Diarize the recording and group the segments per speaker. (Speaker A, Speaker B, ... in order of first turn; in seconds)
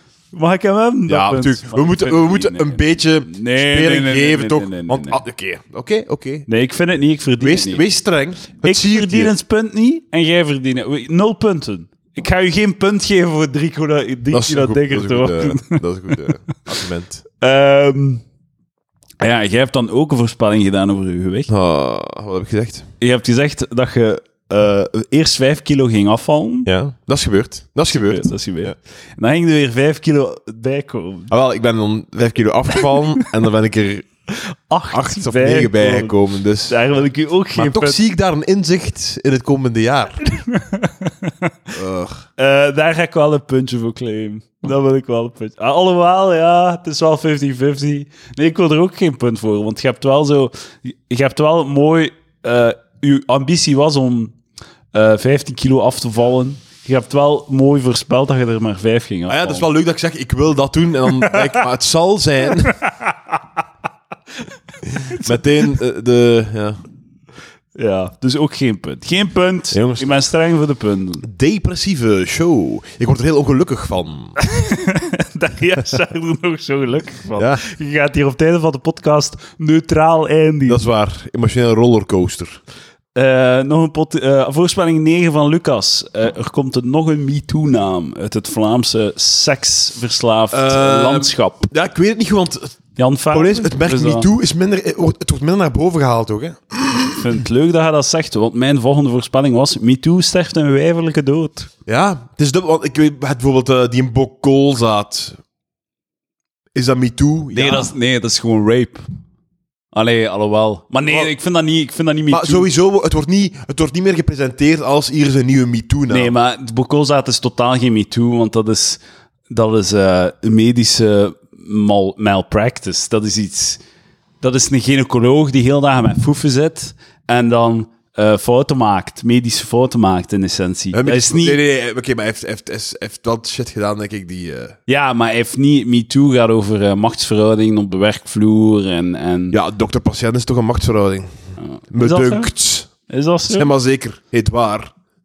Speaker A: 0.3-5.2, 6.5-7.8, 8.6-15.8, 17.4-18.2, 19.2-21.5, 23.0-26.7, 27.9-31.3, 34.3-36.2, 36.7-38.0, 40.4-41.5, 42.4-54.4, 54.9-59.7, 65.1-65.4, 67.8-71.3, 74.4-80.8, 83.2-91.7, 93.0-94.3, 97.1-101.7, 107.5-109.0, 109.9-112.7, 116.1-123.8, 124.4-131.6, 134.9-139.6, 141.9-142.5, 143.1-143.7
Speaker B: 1.1-6.5, 7.4-9.3, 14.3-17.2, 21.5-22.9, 26.7-28.8, 31.3-34.1, 34.9-36.8, 37.5-40.2, 41.7-42.3, 59.3-62.8, 65.1-66.8, 69.7-70.1, 71.2-74.4, 77.3-77.6, 80.7-82.6, 90.5-92.8, 93.3-97.2, 101.9-105.4, 106.7-107.9, 111.1-111.3, 112.3-116.3, 130.9-134.8, 139.5-141.3, 141.9-142.9, 143.5-144.9